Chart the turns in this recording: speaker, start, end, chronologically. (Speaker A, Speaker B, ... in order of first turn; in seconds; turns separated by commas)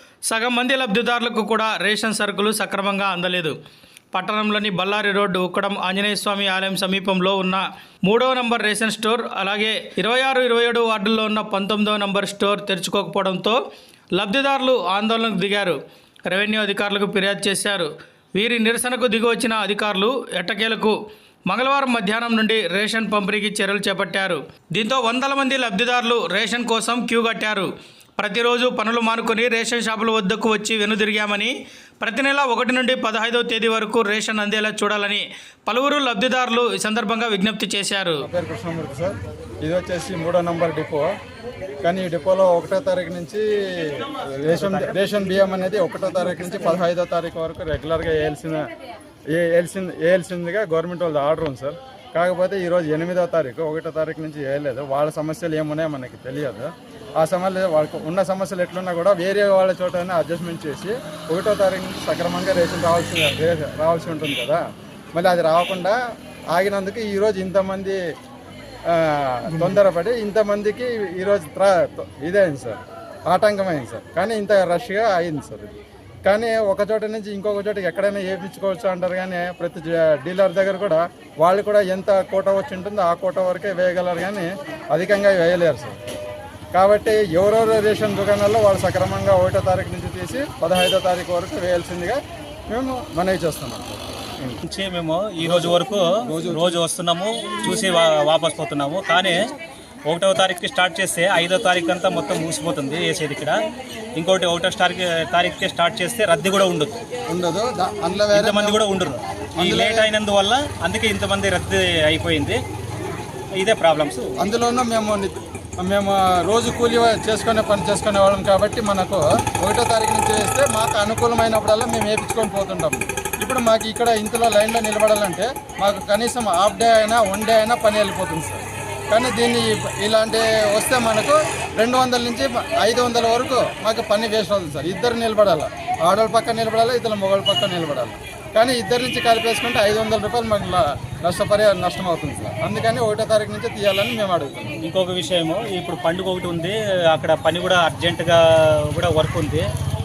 Speaker A: 0.3-3.5, Speaker A: 4.1-13.6, Speaker A: 14.2-15.8, Speaker A: 16.3-20.9, Speaker A: 21.5-38.2, Speaker B: 38.2-41.1, Speaker B: 41.8-48.7, Speaker B: 49.4-64.6, Speaker B: 65.2-66.0, Speaker B: 66.5-68.0, Speaker B: 68.9-75.7, Speaker B: 76.2-86.0, Speaker B: 86.7-92.2, Speaker B: 92.7-94.6, Speaker C: 94.7-99.4, Speaker B: 95.4-96.8, Speaker C: 100.1-103.5, Speaker C: 104.2-107.0, Speaker B: 107.3-108.8, Speaker C: 108.3-112.6, Speaker B: 109.6-110.1, Speaker C: 113.6-114.3, Speaker B: 114.4-144.8, Speaker C: 144.8-148.4, Speaker C: 148.9-149.6